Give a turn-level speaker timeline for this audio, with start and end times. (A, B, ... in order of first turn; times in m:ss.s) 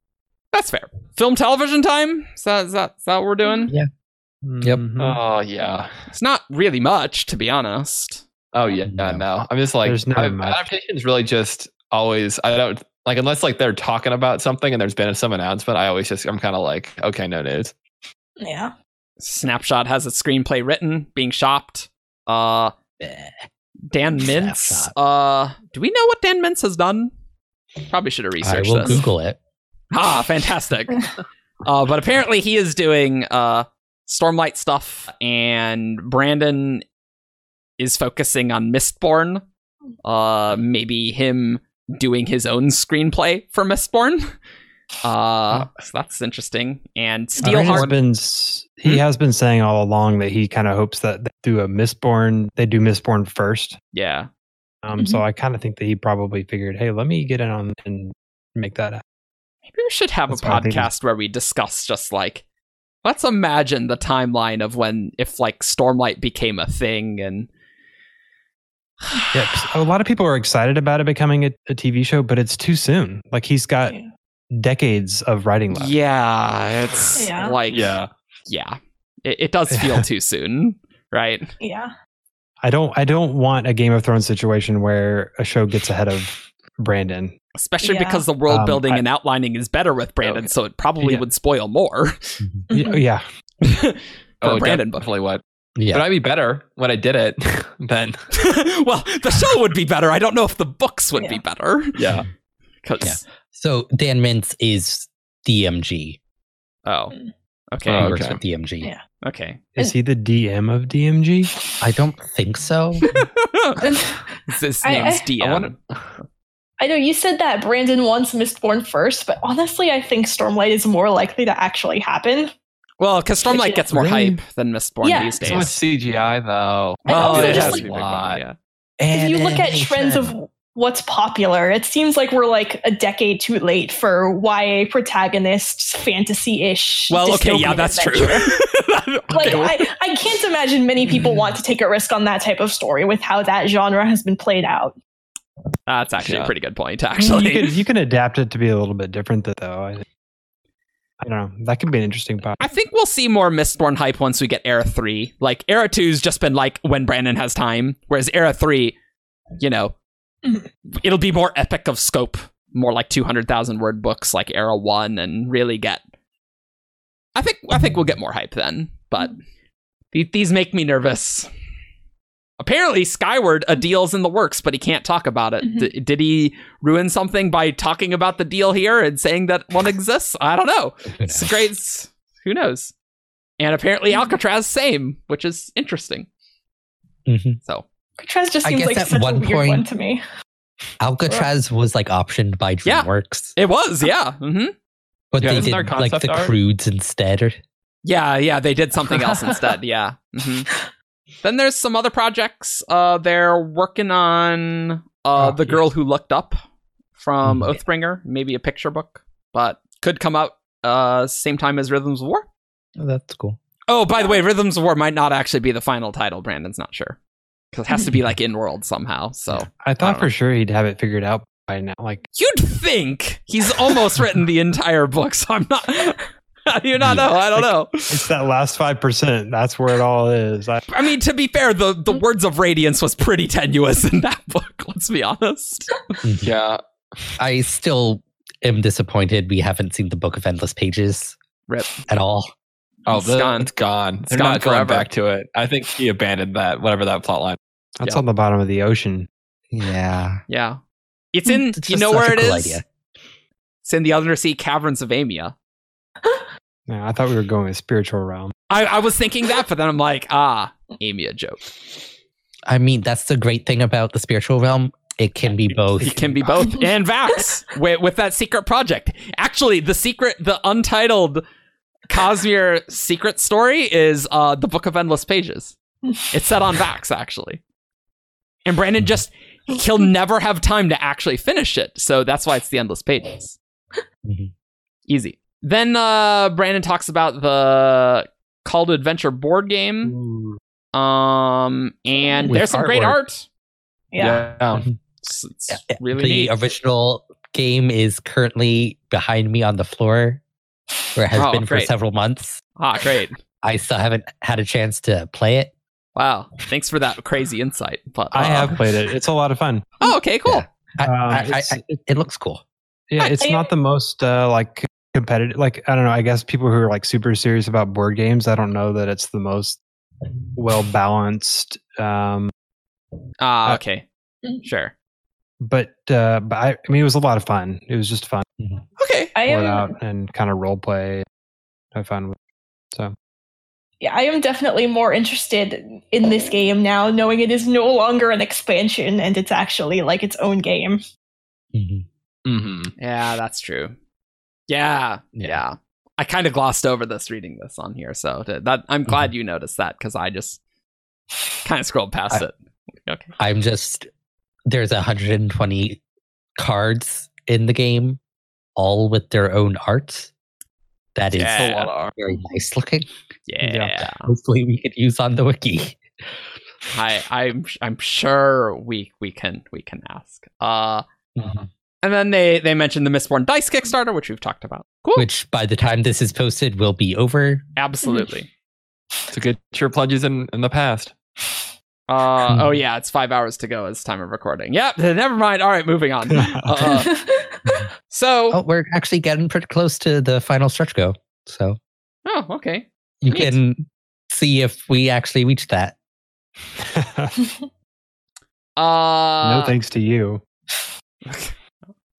0:00.5-0:03.7 A
0:04.4-0:05.2 B
0:05.0-0:05.9 C
0:06.1-0:08.2 A
0:08.5-0:17.7 C
0:08.9-0:09.2 D
0:09.8-0:10.6 B
0:18.4-0:18.7 E
0:19.2-0:22.7 A
0:23.0-0:23.4 D
0:23.9-0:27.1 A
0:24.2-0:24.9 D
0:27.9-0:29.0 A
0:28.4-0:29.4 D
0:29.9-0:31.1 A
0:31.6-0:36.8 A
0:37.8-0:39.4 A
0:40.0-0:44.3 A
0:45.0-0:47.9 A
0:47.4-0:53.8 B
0:53.9-0:54.3 A
0:54.8-0:59.0 B
0:55.0-0:55.2 E
0:59.7-1:02.4 A
1:00.3-1:00.9 B
1:03.0-1:07.5 A
1:09.1-1:09.6 A
1:09.3-1:13.9 B
1:14.5-1:15.9 B
1:15.7-1:17.9 A
1:17.2-1:17.6 E
1:17.7-1:18.1 C
1:18.5-1:21.5 A
1:19.7-1:20.0 B
1:21.6-1:21.9 E
1:22.6-1:27.3 B
1:27.5-1:32.4 A
1:27.8-1:28.3 E
1:28.5-1:29.0 B
1:32.7-1:33.0 E
1:32.7-1:33.2 B
1:33.6-1:35.1 A
1:34.4-1:38.2 C
1:35.8-1:36.0 D
1:38.3-1:42.0 A
1:42.0-1:42.2 C
1:42.8-1:43.2 A
1:43.0-1:46.2 D
1:46.8-1:47.1 A
1:47.7-1:48.1 A
1:47.8-1:48.4 C
1:47.9-1:48.9 D
1:49.2-1:49.6 A
1:49.8-1:51.5 B
1:51.8-1:53.1 D
1:53.0-1:53.8 A
1:53.8-1:55.3 E
1:54.5-1:56.2 A
1:54.9-1:56.1 C
1:56.8-2:02.5 E
2:03.0-2:05.8 A
2:03.5-2:03.8 E
2:03.9-2:04.4 D
2:05.0-2:05.6 E
2:05.4-2:08.4 C
2:07.0-2:07.8 E
2:07.1-2:08.6 A
2:09.0-2:10.3 D
2:09.1-2:18.5 E
2:17.1-2:19.9 A
2:19.3-2:25.0 E
2:25.9-2:27.8 A
2:26.2-2:26.5 C
2:27.2-2:30.0 B
2:31.2-2:32.6 B
2:32.6-2:39.0 A
2:39.6-2:39.9 A
2:40.9-2:46.0 A
2:47.3-2:49.4 A
2:50.1-2:51.5 A
2:52.6-3:02.9 A
2:55.6-2:55.9 E
3:01.1-3:01.5 D
3:03.6-3:06.3 A
3:07.2-3:07.6 D
3:08.2-3:10.2 E
3:08.6-3:09.8 D
3:11.0-3:13.5 D
3:12.8-3:14.7 A
3:15.3-3:17.6 D
3:15.4-3:16.6 C
3:18.0-3:20.7 A
3:21.4-3:26.6 A
3:27.2-3:32.5 A
3:27.4-3:27.8 D
3:33.0-3:33.6 D
3:33.9-3:37.2 A
3:37.7-3:40.3 A
3:39.8-3:42.2 B
3:42.3-3:48.2 A
3:47.0-3:47.3 D
3:47.6-3:50.8 B
3:50.9-3:56.0 A
3:56.2-3:56.5 D
3:56.4-3:56.8 C
3:57.4-4:01.4 D
4:01.7-4:02.0 A
4:02.1-4:02.5 D
4:03.0-4:07.6 C
4:03.1-4:03.7 A
4:04.3-4:05.1 A
4:08.0-4:09.3 B
4:09.7-4:10.4 D
4:10.5-4:10.8 A
4:11.3-4:12.8 A
4:11.5-4:12.8 D
4:13.8-4:15.5 A
4:16.9-4:18.5 B
4:18.7-4:21.7 A
4:22.7-4:26.3 D
4:25.7-4:31.4 A
4:26.1-4:26.4 B
4:32.1-4:35.7 A
4:36.3-4:37.6 A
4:38.6-4:43.6 A
4:44.2-4:44.5 D
4:45.1-4:50.1 A
4:50.1-4:50.6 B
4:50.9-4:53.4 A
4:52.2-4:52.5 E
4:52.5-4:53.2 D
4:54.1-4:54.4 E
4:54.2-4:54.8 C
4:55.2-4:56.5 A
4:55.7-5:00.4 D
5:01.1-5:02.6 D
5:01.3-5:01.9 A
5:02.8-5:03.4 A
5:03.6-5:05.7 D
5:06.2-5:08.8 A
5:08.3-5:09.9 B
5:10.0-5:10.6 A
5:10.4-5:12.6 D
5:11.0-5:11.8 B
5:13.1-5:19.8 B
5:13.4-5:13.7 E
5:20.5-5:22.5 B
5:23.4-5:24.0 A
5:24.6-5:24.9 A
5:25.6-5:28.4 B
5:29.0-5:29.3 A
5:29.3-5:29.9 E
5:29.4-5:31.2 B
5:31.9-5:32.4 B
5:34.0-5:41.0 E
5:41.7-5:42.0 D
5:42.4-5:42.9 C
5:43.0-5:43.9 A
5:44.7-5:50.6 A
5:45.3-5:45.6 D
5:49.1-5:49.3 D
5:51.6-5:52.5 A
5:53.0-5:53.3 A
5:53.4-5:54.1 D
5:54.7-5:56.0 D
5:56.6-5:58.2 D
5:58.8-6:00.3 D
6:01.1-6:03.1 D
6:01.3-6:01.9 A
6:01.5-6:02.1 C
6:03.5-6:04.3 A
6:03.6-6:03.9 B
6:04.0-6:06.0 D
6:06.9-6:11.0 A
6:11.4-6:11.7 D
6:12.0-6:15.3 A
6:15.1-6:17.6 D
6:17.8-6:18.5 A
6:18.0-6:18.3 E
6:19.3-6:21.1 C
6:22.1-6:27.1 A
6:22.4-6:22.8 D
6:26.3-6:26.7 B
6:26.8-6:27.8 E
6:28.1-6:28.6 A
6:28.5-6:31.8 D
6:32.2-6:33.6 A
6:33.2-6:35.9 D
6:36.8-6:37.3 B
6:38.8-6:39.7 A
6:39.4-6:40.4 B
6:41.2-6:41.5 A